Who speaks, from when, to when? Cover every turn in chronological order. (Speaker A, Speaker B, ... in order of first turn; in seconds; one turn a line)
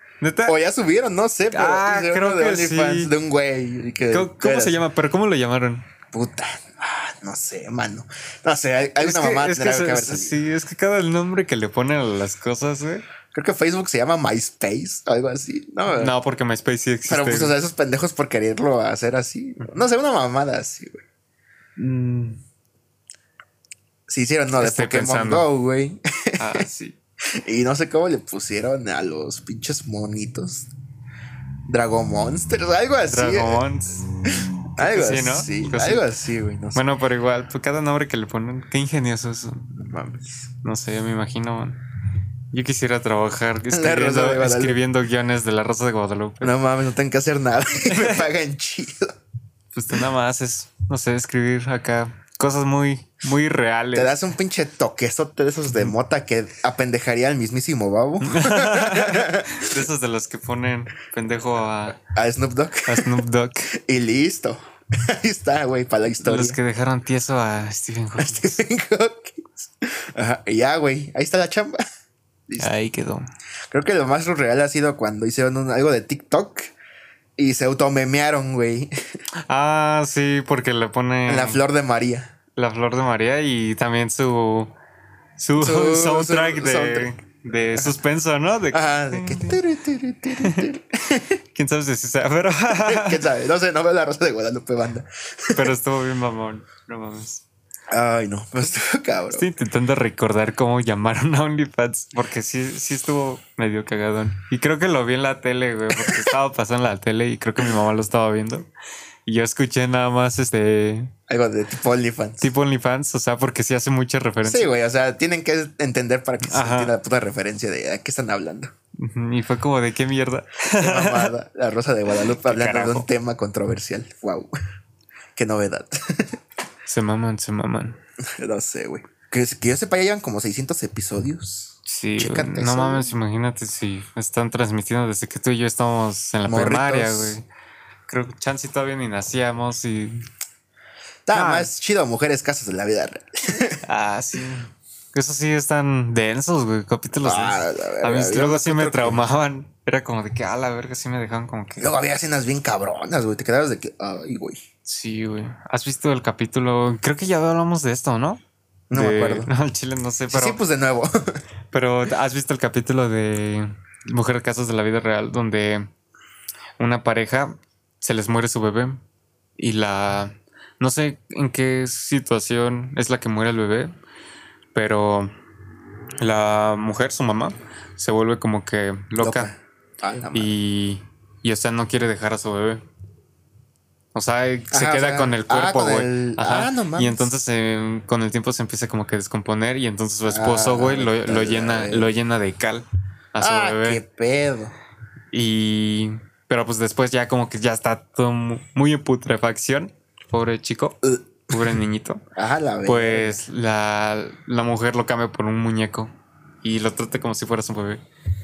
Speaker A: 0.2-0.5
Speaker B: 0.5-4.8
Speaker A: 1.5-3.1
Speaker A: 4.1-5.8
Speaker B: 6.1-10.4
Speaker A: 9.0-13.0
Speaker B: 13.3-16.1
Speaker A: 15.9-17.5
Speaker B: 17.1-21.0
Speaker A: 21.8-22.4
Speaker B: 24.1-26.6
Speaker A: 24.6-25.5
Speaker A: 26.4-26.9
Speaker B: 27.4-30.7
Speaker B: 31.7-33.6
Speaker A: 33.1-34.1
Speaker B: 34.4-36.8
Speaker A: 34.8-36.1
Speaker A: 36.7-39.7
Speaker B: 39.7-40.5
Speaker A: 40.6-41.8
Speaker A: 42.5-46.5
Speaker B: 43.7-44.8
Speaker B: 46.4-49.1
Speaker A: 47.9-48.2
Speaker A: 49.7-54.1
Speaker B: 53.9-59.7
Speaker A: 58.2-62.0
Speaker B: 62.0-63.2
Speaker A: 62.9-63.7
Speaker B: 63.7-66.6
Speaker A: 66.2-68.6
Speaker B: 68.2-71.8
Speaker A: 72.6-73.3
Speaker B: 73.7-76.7
Speaker B: 77.4-78.9
Speaker A: 79.4-81.6
Speaker B: 81.3-82.3
Speaker A: 82.5-84.7
Speaker A: 85.4-89.6
Speaker B: 85.6-87.1
Speaker B: 88.7-91.4
Speaker A: 90.4-90.7
Speaker A: 91.5-93.2
Speaker B: 92.7-95.7
Speaker A: 95.5-97.4
Speaker B: 97.9-99.5
Speaker A: 99.3-108.7
Speaker B: 105.9-106.3
Speaker A: 109.2-111.1
Speaker B: 111.3-112.5
Speaker A: 112.4-114.7
Speaker B: 114.4-118.7
Speaker A: 116.4-116.9
Speaker A: 118.9-121.3
Speaker B: 120.7-124.5
Speaker A: 122.1-123.1
Speaker B: 125.3-126.4
Speaker A: 126.8-128.0
Speaker B: 128.2-133.1
Speaker A: 131.8-137.4
Speaker B: 136.4-137.4
Speaker A: 138.1-140.3
Speaker B: 141.2-143.8
Speaker A: 141.3-141.7
Speaker A: 143.8-151.9
Speaker B: 147.2-149.2
Speaker B: 151.8-154.6
Speaker A: 154.8-158.4
Speaker B: 158.9-159.5
Speaker A: 158.9-160.6
Speaker B: 160.3-161.4
Speaker A: 161.7-165.9
Speaker A: 166.8-169.0
Speaker A: 169.6-173.9
Speaker A: 174.7-175.3
Speaker A: 176.2-179.5
Speaker B: 179.2-180.5
Speaker A: 180.3-182.8
Speaker A: 184.1-194.0
Speaker B: 184.7-187.3
Speaker B: 190.2-192.1
Speaker B: 193.4-194.7
Speaker A: 195.3-202.2
Speaker B: 201.0-201.6
Speaker B: 202.3-203.4
Speaker A: 202.8-206.1
Speaker A: 206.6-208.0